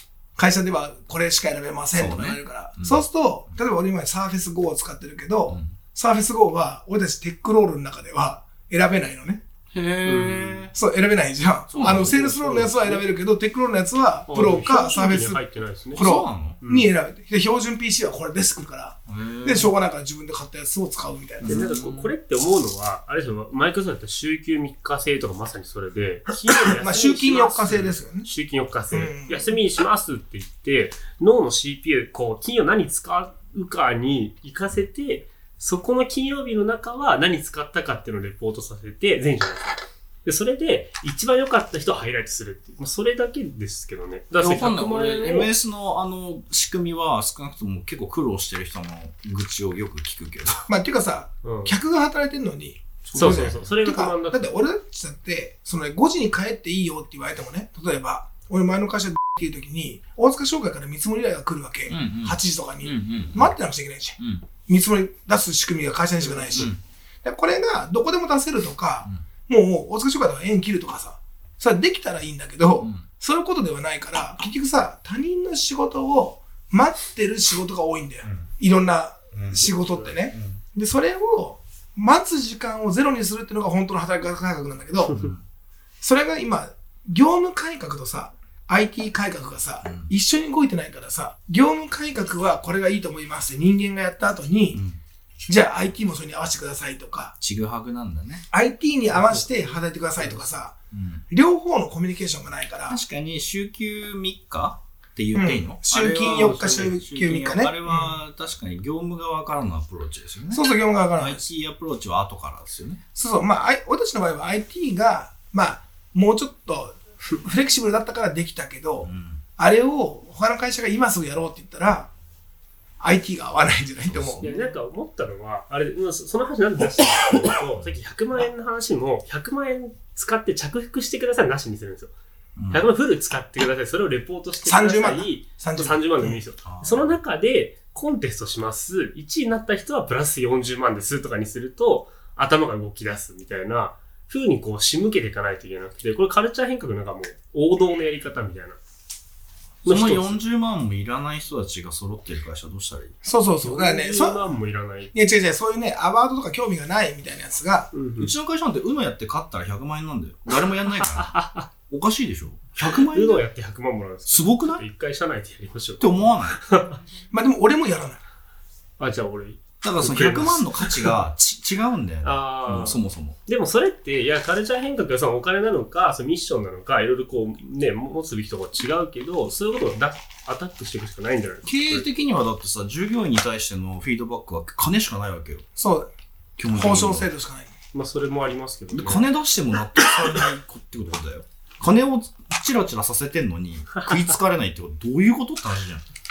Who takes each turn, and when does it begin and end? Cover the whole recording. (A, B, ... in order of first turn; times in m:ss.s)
0:00.4-0:09.4 A
0:01.9-0:03.0 B
0:05.5-0:05.7 B
0:09.7-0:10.7 B
0:10.0-0:10.7 C
0:10.7-0:15.4 A
0:11.7-0:12.2 B
0:11.8-0:13.0 C
0:14.3-0:16.0 C
0:16.0-0:16.6 B
0:16.0-0:21.7 A
0:16.6-0:16.9 C
0:19.1-0:19.7 B
0:21.4-0:22.1 B
0:21.4-0:45.5 C
0:26.8-0:28.3 A
0:28.9-0:29.5 A
0:44.4-0:50.6 B
0:50.7-1:25.2 A
0:51.4-0:51.7 C
0:53.0-0:53.6 B
0:53.1-0:54.5 C
1:01.9-1:03.5 B
1:04.2-1:04.4 B
1:06.5-1:06.8 B
1:19.3-1:19.7 B
1:19.6-1:20.1 C
1:20.3-1:20.6 B
1:25.1-1:25.4 B
1:26.0-1:34.8 A
1:29.8-1:30.1 B
1:34.7-1:35.0 B
1:35.5-1:37.3 A
1:37.4-1:38.4 B
1:38.5-1:40.8 A
1:39.1-1:40.4 C
1:40.9-1:41.2 B
1:41.3-1:43.0 A
1:42.9-1:53.0 B
1:45.3-1:48.2 A
1:46.2-1:47.0 C
1:50.5-1:51.4 A
1:53.2-2:02.1 A
1:59.0-1:59.4 B
2:03.0-2:04.6 A
2:04.0-2:04.6 B
2:04.4-2:12.1 C
2:12.6-2:12.9 B
2:12.7-2:28.8 C
2:14.6-2:16.4 A
2:16.6-2:17.2 B
2:29.8-2:30.4 C
2:29.8-2:33.2 B
2:33.2-2:34.5 A
2:33.6-2:35.1 C
2:35.1-2:37.9 A
2:37.9-2:38.3 C
2:38.2-2:43.4 B
2:41.0-2:41.7 C
2:42.8-2:47.0 C
2:44.3-2:44.8 B
2:46.0-2:46.6 B
2:47.3-2:48.2 A
2:49.0-2:51.1 C
2:49.8-2:53.4 B
2:52.2-3:02.0 C
3:01.6-3:05.6 B
3:05.8-3:06.1 A
3:06.6-3:07.3 B
3:06.7-3:07.7 A
3:07.9-3:09.2 C
3:08.9-3:16.0 B